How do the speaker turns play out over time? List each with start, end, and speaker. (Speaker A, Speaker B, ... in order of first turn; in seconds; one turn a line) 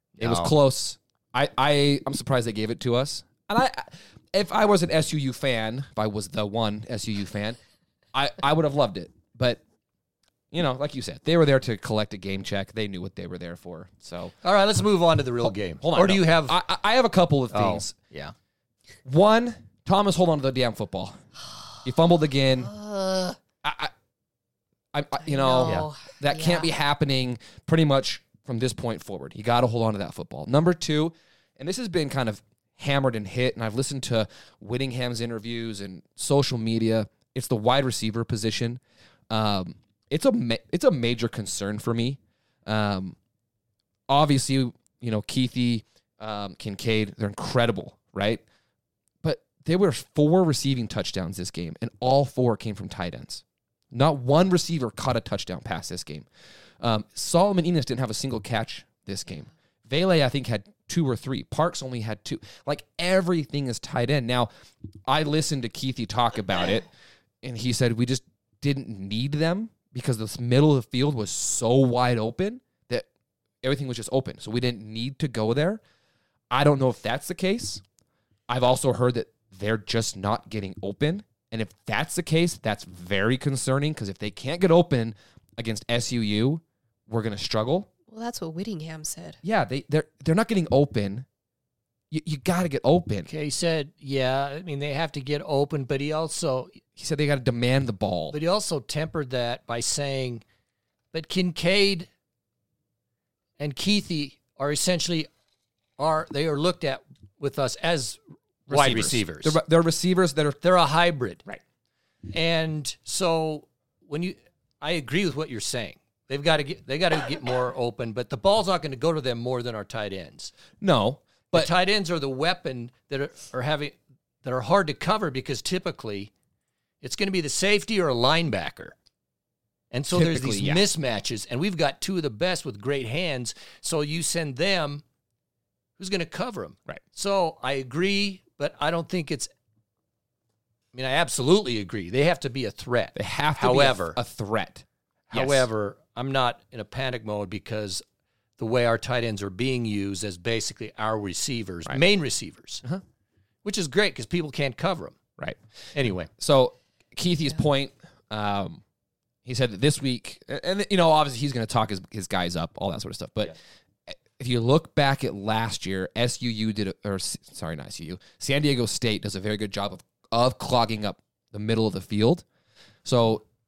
Speaker A: 0.2-0.5
Speaker B: 0.2-7.6
Speaker B: 8.1-9.6
Speaker B: 10.5-14.4
Speaker A: 14.4-16.6
Speaker B: 15.4-17.9
Speaker A: 17.5-18.3
Speaker B: 19.1-21.1
Speaker B: 21.8-22.7
Speaker C: 22.6-23.4
Speaker B: 23.6-23.9
Speaker B: 24.9-43.2
Speaker C: 25.2-26.7
Speaker B: 44.1-48.4
Speaker B: 49.2-56.3
Speaker B: 56.8-64.5
Speaker B: 65.1-66.8
Speaker B: 67.4-73.1
Speaker B: 73.6-75.8
Speaker B: 76.5-77.8
Speaker B: 78.5-87.9
Speaker C: 88.1-89.4
Speaker B: 89.4-91.3
Speaker B: 92.1-93.3
Speaker A: 93.3-96.8
Speaker B: 97.0-98.4
Speaker A: 98.3-100.4
Speaker A: 101.1-102.1
Speaker A: 103.6-105.3
Speaker A: 106.0-109.6
Speaker B: 108.7-110.6
Speaker A: 110.6-111.4
Speaker A: 112.3-120.5
Speaker B: 120.8-121.7
Speaker A: 121.5-126.3
Speaker A: 127.0-128.9
Speaker A: 129.9-135.0
Speaker B: 130.1-130.8
Speaker A: 136.0-139.5
Speaker A: 140.9-144.2
Speaker B: 143.2-145.7
Speaker A: 145.3-148.0
Speaker A: 148.6-152.8
Speaker A: 153.6-155.2
Speaker A: 155.9-156.3
Speaker B: 156.4-158.8
Speaker B: 159.4-163.6
Speaker B: 164.1-172.4
Speaker B: 173.1-173.4